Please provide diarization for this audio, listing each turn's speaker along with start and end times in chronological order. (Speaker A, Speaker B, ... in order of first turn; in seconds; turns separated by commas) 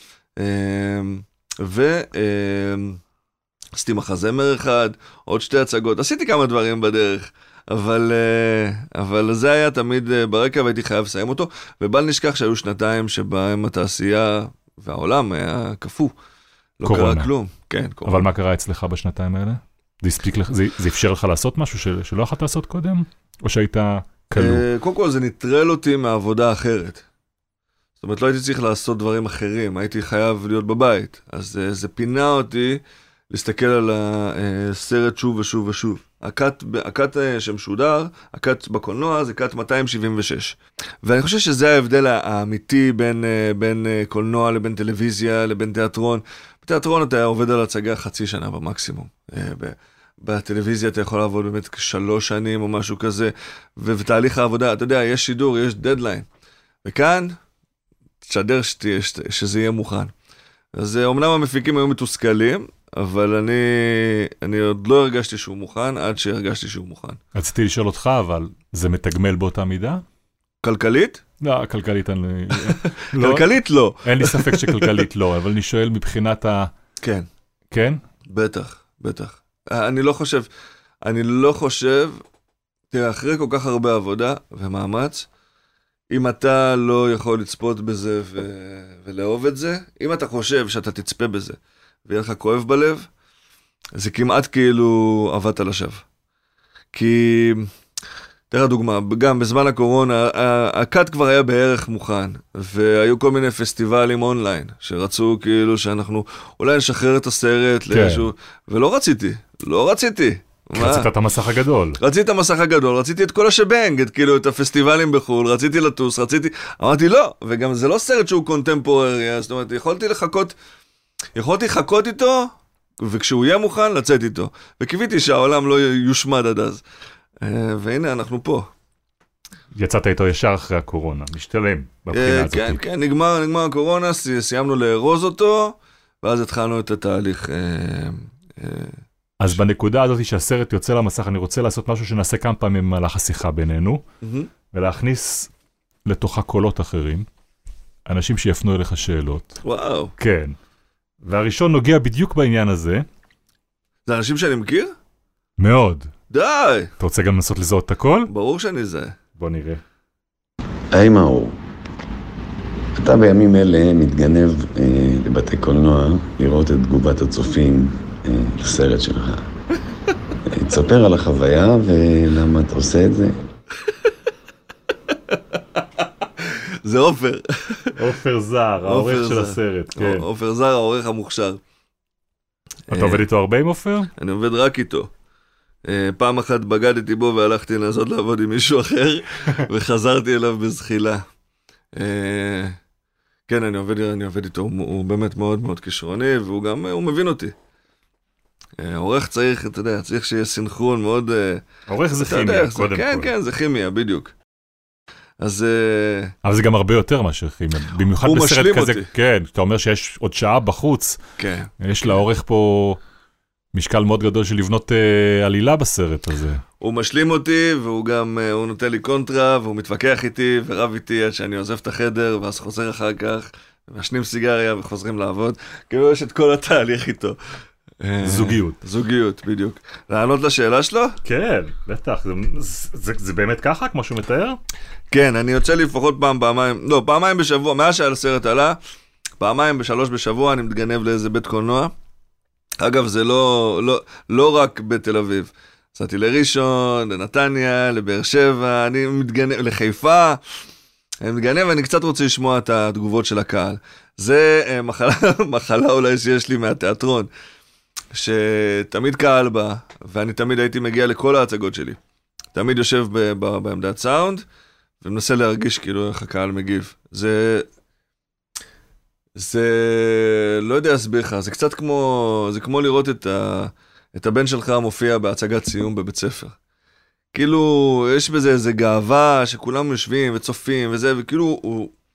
Speaker A: 0.4-3.0, Speaker A: 3.7-16.1, Speaker A: 16.8-18.2, Speaker B: 16.8-17.3, Speaker B: 18.0-24.6, Speaker A: 24.3-27.0, Speaker A: 28.0-56.2, Speaker A: 56.8-57.4, Speaker A: 58.2-60.1, Speaker A: 60.7-67.2, Speaker B: 67.3-70.0, Speaker A: 70.6-71.2, Speaker B: 71.4-73.5, Speaker A: 72.7-75.0, Speaker B: 74.0-76.7, Speaker A: 77.0-77.3, Speaker B: 77.7-78.0, Speaker A: 78.3-80.5, Speaker A: 81.0-82.2, Speaker A: 82.9-85.3, Speaker A: 86.1-93.1, Speaker A: 94.0-96.0, Speaker A: 96.9-97.7, Speaker A: 98.5-111.1, Speaker B: 107.9-108.3, Speaker B: 110.8-112.0, Speaker A: 112.0-120.5, Speaker A: 121.3-126.8, Speaker A: 127.4-128.7, Speaker B: 129.7-132.8, Speaker A: 132.1-139.0, Speaker B: 139.4-144.0, Speaker A: 144.2-144.5, Speaker B: 144.7-145.5, Speaker B: 146.1-147.3, Speaker B: 148.1-149.6, Speaker A: 149.6-150.1, Speaker B: 150.2-150.6, Speaker B: 151.2-153.0, Speaker A: 154.1-154.9, Speaker B: 155.6-156.1, Speaker A: 156.3-156.9, Speaker B: 157.0-158.3, Speaker A: 158.3-159.2, Speaker B: 159.3-159.8, Speaker C: 160.9-161.6, Speaker C: 162.9-169.4, Speaker C: 170.5-173.4, Speaker A: 176.0-177.9, Speaker B: 177.9-180.2, Speaker A: 178.8-181.6, Speaker B: 182.9-184.1, Speaker A: 182.9-183.2, Speaker A: 184.2-185.1, Speaker A: 185.8-191.2, Speaker A: 191.9-192.8, Speaker A: 193.5-197.5, Speaker A: 198.8-201.7, Speaker B: 201.9-203.3, Speaker A: 202.2-204.3, Speaker A: 205.4-206.3, Speaker B: 206.4-211.2, Speaker A: 208.2-209.1, Speaker A: 211.4-211.7, Speaker B: 211.8-213.0, Speaker B: 213.7-216.6, Speaker A: 216.8-227.4, Speaker A: 228.0-231.2, Speaker B: 228.2-228.8, Speaker B: 231.2-234.6, Speaker A: 235.1-238.8, Speaker A: 239.4-241.9, Speaker A: 242.8-250.4, Speaker A: 251.2-257.3, Speaker A: 258.1-262.0, Speaker A: 262.5-264.4, Speaker A: 265.0-267.7, Speaker A: 269.4-276.6, Speaker A: 277.3-281.9